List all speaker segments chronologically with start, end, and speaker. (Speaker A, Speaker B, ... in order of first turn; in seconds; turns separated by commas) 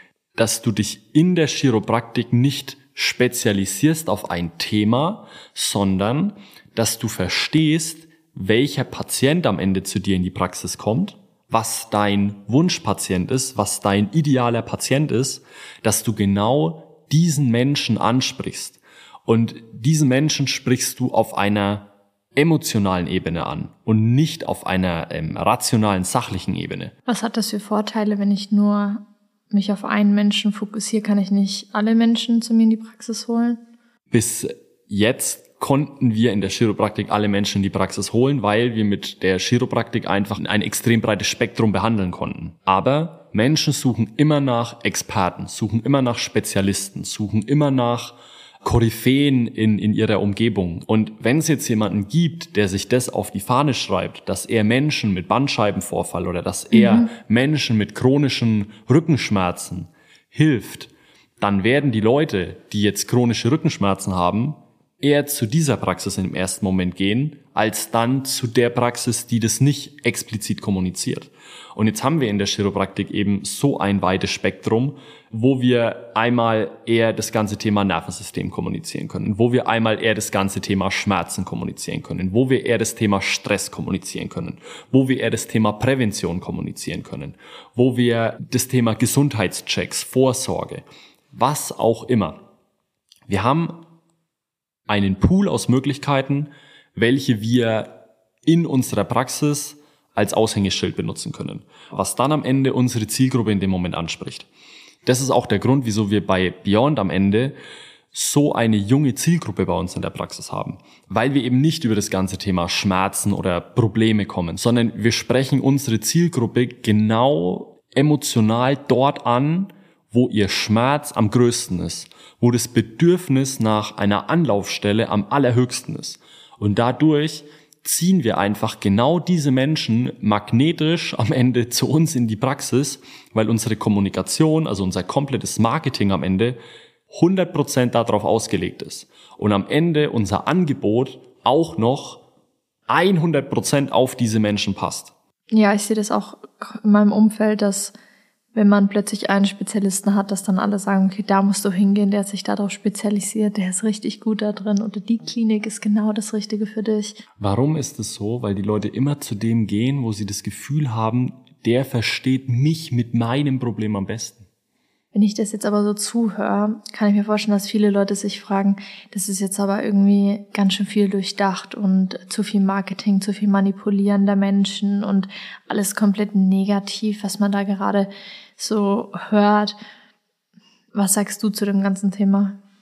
Speaker A: 0.3-26.9, Speaker B: 27.1-33.6, Speaker A: 34.1-92.4, Speaker B: 56.7-57.1, Speaker A: 93.3-93.8, Speaker A: 94.9-104.5, Speaker A: 105.0-107.5, Speaker A: 108.1-136.6, Speaker A: 137.1-142.2, Speaker A: 142.9-145.1, Speaker B: 145.5-147.9, Speaker B: 148.5-157.2, Speaker A: 157.4-164.4, Speaker B: 165.1-179.7, Speaker B: 180.9-182.6